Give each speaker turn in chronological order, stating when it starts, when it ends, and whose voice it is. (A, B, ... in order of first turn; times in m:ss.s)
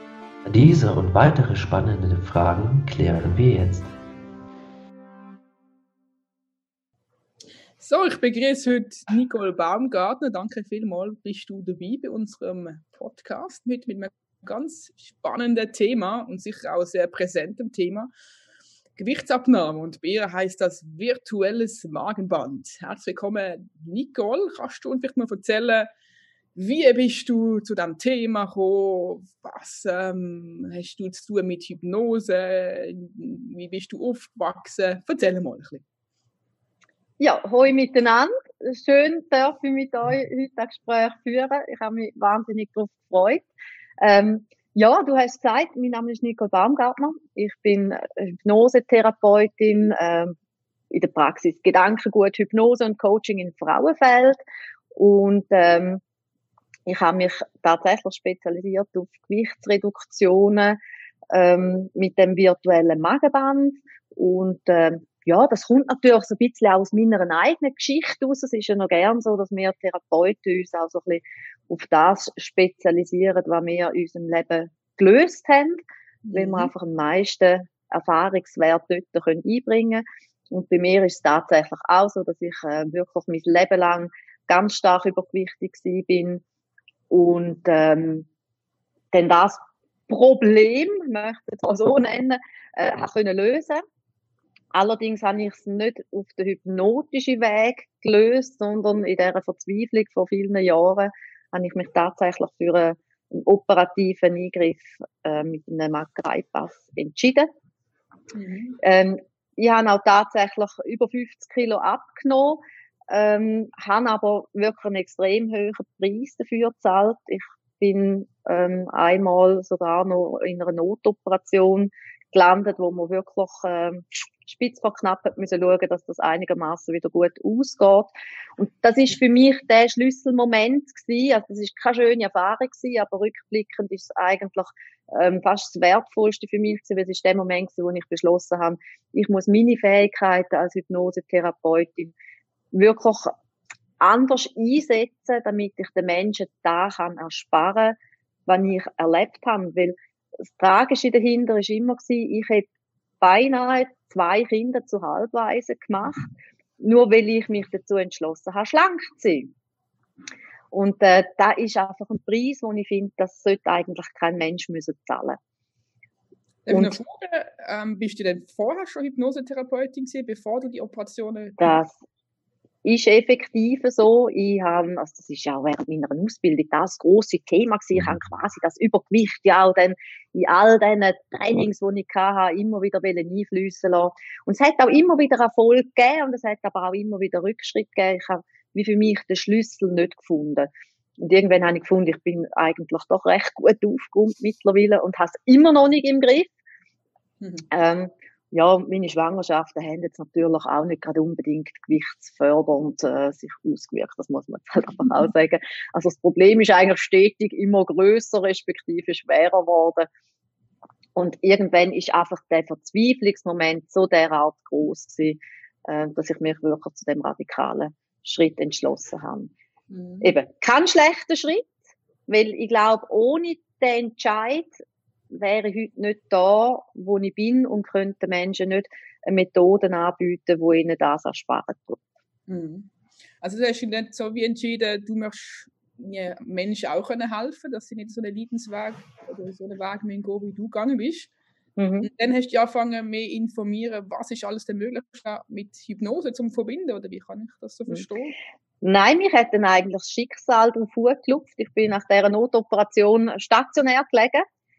0:00.4-0:03.9 A
0:07.8-0:18.1 B
0:19.0-0:25.9 B
0:26.5-0:35.8 B
0:37.2-0:43.4 C
0:44.0-0:50.3 C
0:50.9-0:54.4 C
0:54.9-0:56.0 C
0:56.8-1:00.8 C
1:01.3-1:15.8 C
1:16.2-1:16.7 B
1:16.3-1:26.4 C
1:27.1-1:28.3 C
1:29.1-1:33.8 C
1:34.7-1:47.5 C
1:48.3-1:48.8 B
1:48.8-2:22.1 C
2:22.7-2:23.3 C
2:24.0-2:28.0 C
2:28.5-2:29.9 C
2:30.5-2:32.7 C
2:33.2-2:36.3 C
2:36.8-2:39.5 C
2:40.7-2:45.4 C
2:46.6-2:51.8 B
2:46.7-2:47.0 C
2:51.6-2:52.0 C
2:52.8-3:16.5 C
3:17.4-3:17.7 B
3:17.7-3:30.1 C
3:31.2-3:39.5 C
3:39.9-3:40.3 B
3:40.2-3:41.7 C
3:42.3-3:44.7 C
3:45.3-3:52.0 C
3:52.5-3:52.9 B
3:53.4-4:01.3 B
4:01.8-4:02.1 C
4:02.0-4:08.3 B
4:08.8-4:14.4 C